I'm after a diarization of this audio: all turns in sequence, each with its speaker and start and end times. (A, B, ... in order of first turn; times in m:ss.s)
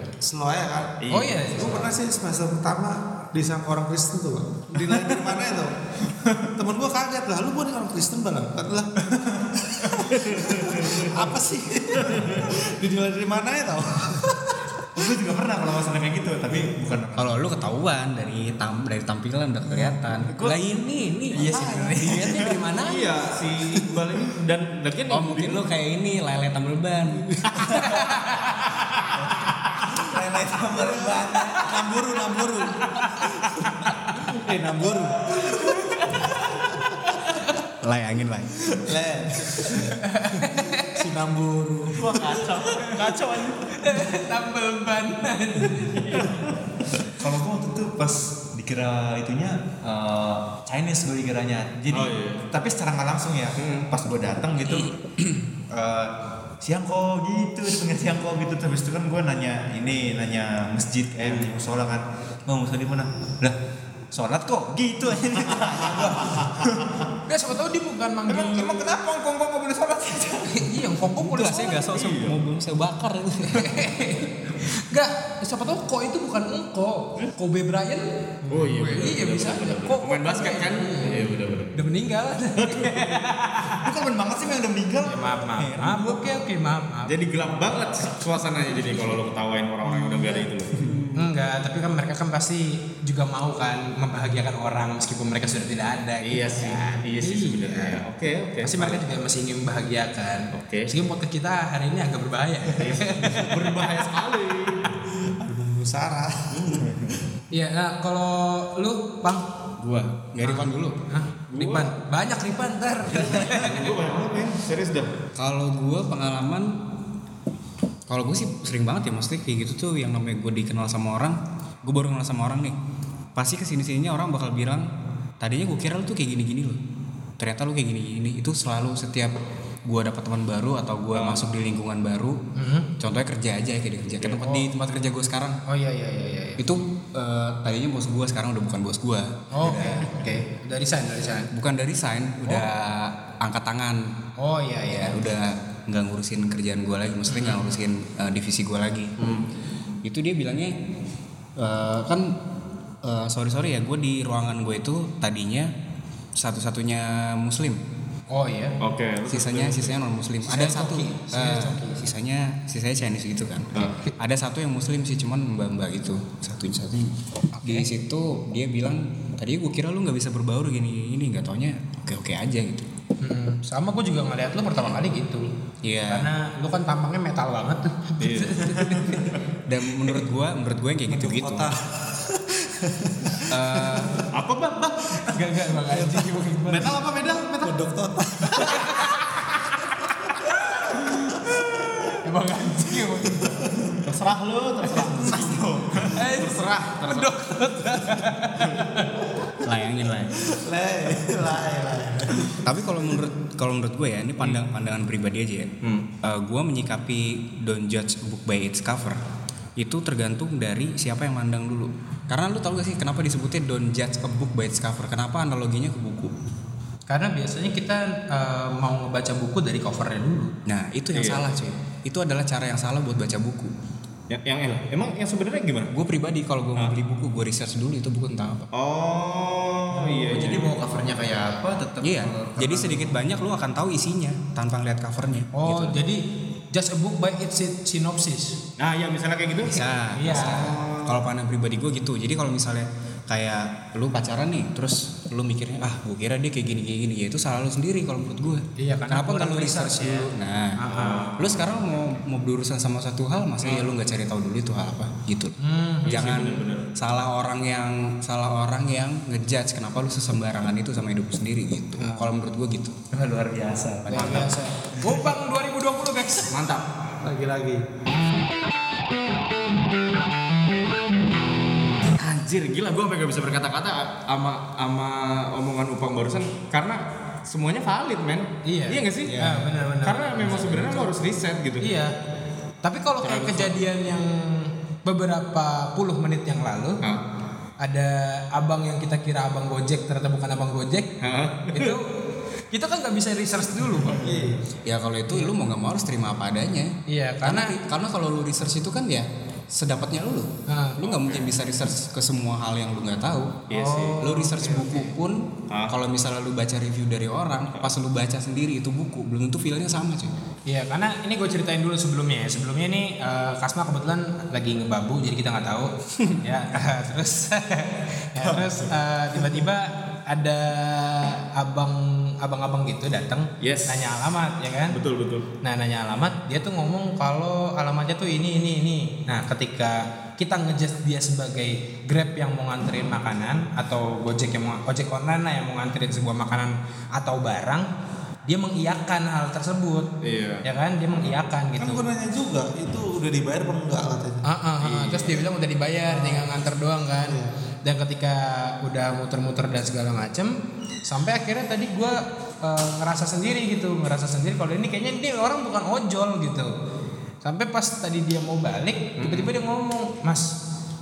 0:00.2-0:01.0 A
0:01.0-0:01.4 B
0:01.1-0:01.9 C
0:01.5-0:05.7 A
0:06.1-0:06.5 D
0:06.6-0:08.9 A
0:09.1-0:11.0 D
0:09.6-0:14.6 A
0:10.2-0:11.1 B
0:14.9-0:17.3 D
0:17.2-0:22.7 E
0:21.2-0:23.0 C
0:21.3-0:22.6 D
0:22.8-0:25.6 B
0:25.1-0:28.0 E
0:27.7-0:28.8 C
0:29.2-0:31.7 D
0:30.5-0:33.7 A
0:32.9-0:33.3 C
0:34.2-0:36.2 A
0:35.4-0:37.5 C
0:37.8-0:38.6 E
0:38.6-0:40.0 A
0:39.6-0:41.0 C
0:40.5-0:42.2 A
0:42.0-0:43.7 B
0:43.7-0:46.3 C
0:45.9-0:46.5 B
0:47.1-0:55.0 D
0:51.9-0:52.4 B
0:53.6-0:53.9 B
0:55.7-1:03.6 D
1:04.1-1:07.0 D
1:07.2-1:08.9 C
1:08.3-1:10.6 D
1:10.4-1:12.0 C
1:11.2-1:13.8 E
1:11.9-1:12.3 B
1:13.5-1:21.2 C
1:18.5-1:21.7 B
1:21.7-1:23.9 C
1:22.6-1:23.2 B
1:23.8-1:26.2 D
1:25.0-1:27.1 C
1:27.1-1:31.1 B
1:31.1-1:38.0 C
1:36.2-1:39.0 B
1:38.6-1:44.0 C
1:40.5-1:40.9 B
1:42.8-1:44.8 B
1:45.3-1:47.1 A
1:46.5-1:46.9 B
1:47.5-1:49.4 C
1:50.3-1:51.0 E
1:50.4-1:53.9 C
1:51.5-1:51.9 B
1:53.1-1:55.1 B
1:55.4-1:56.7 E
1:58.1-2:02.8 E
2:03.4-2:04.9 E
2:05.4-2:06.8 E
2:07.4-2:09.3 E
2:09.9-2:12.4 E
2:11.1-2:11.4 B
2:12.5-2:12.9 C
2:13.0-2:15.6 E
2:14.4-2:14.7 C
2:15.7-2:16.6 C
2:16.6-2:20.3 E
2:19.5-2:21.5 C
2:21.5-2:24.0 E
2:24.4-2:25.2 C
2:24.9-2:29.1 E
2:27.3-2:27.7 C
2:30.0-2:30.7 E
2:31.6-2:32.3 E
2:33.0-2:35.7 E
2:36.4-2:37.8 E
2:38.3-2:38.8 C
2:38.8-2:40.0 B
2:39.3-2:52.8 E
2:40.4-2:42.0 C
2:47.6-2:47.8 C
2:53.2-2:55.5 C
2:55.8-2:56.3 E
2:56.1-2:59.3 C
2:58.2-2:58.7 B
2:59.7-3:01.7 E
3:01.1-3:04.2 A
3:03.5-3:04.1 E
3:04.3-3:05.2 B
3:05.3-3:06.9 C
3:05.9-3:07.0 A
3:06.7-3:07.7 B
3:07.6-3:08.9 A
3:08.6-3:09.7 C
3:10.4-3:11.2 C
3:11.3-3:12.0 A
3:12.2-3:13.6 C
3:13.4-3:14.0 A
3:14.0-3:17.3 B
3:15.0-3:16.2 D
3:16.1-3:19.1 C
3:19.6-3:20.3 E
3:20.4-3:22.8 A
3:22.6-3:25.7 E
3:24.4-3:24.6 B
3:26.2-3:29.2 E
3:29.8-3:36.3 E
3:37.1-3:40.5 C
3:40.6-3:43.7 E
3:41.1-3:41.4 B
3:44.3-3:45.9 B
3:45.9-3:48.7 E
3:48.7-3:50.7 B
3:50.2-3:53.1 D
3:52.0-3:56.0 E
3:55.5-3:56.2 C
3:56.7-3:58.6 C
3:58.8-4:01.1 B
3:59.7-4:10.8 E
4:00.1-4:00.7 C
4:08.8-4:11.3 C
4:10.9-4:11.8 B
4:11.4-4:15.5 E
4:13.6-4:13.9 B
4:15.6-4:16.5 C
4:16.0-4:16.8 B
4:16.0-4:23.0 E
4:22.0-4:22.3 C
4:23.1-4:24.4 D
4:24.0-4:24.5 E
4:24.1-4:26.6 C
4:24.1-4:24.5 B
4:26.5-4:26.8 B
4:27.4-4:27.8 A
4:32.1-4:41.8 B
4:38.6-4:41.1 C
4:41.8-4:42.1 C
4:42.8-4:47.0 C
4:43.2-4:43.8 B
4:47.8-4:51.1 C
4:51.2-4:51.9 B
4:51.7-4:52.0 C
4:52.7-4:54.5 C
4:54.2-4:54.6 A
4:54.9-4:56.9 E
4:55.3-4:55.5 C
4:57.1-4:57.8 C
4:57.4-5:03.7 E
5:00.7-5:01.0 C
5:01.0-5:01.5 B
5:03.7-5:04.2 B
5:03.7-5:05.1 C
5:04.2-5:05.4 E
5:05.9-5:10.3 E
5:10.7-5:25.0 C
5:23.6-5:24.1 B
5:24.9-5:25.4 B
5:25.6-5:37.8 C
5:38.5-5:40.1 C
5:40.2-5:40.6 B
5:40.6-5:42.0 C
5:41.8-5:44.4 A
5:44.4-5:50.5 C
5:44.8-5:45.4 B
5:46.1-5:46.5 A
5:51.1-5:56.7 C
5:57.4-6:00.5 C
5:59.2-5:59.5 B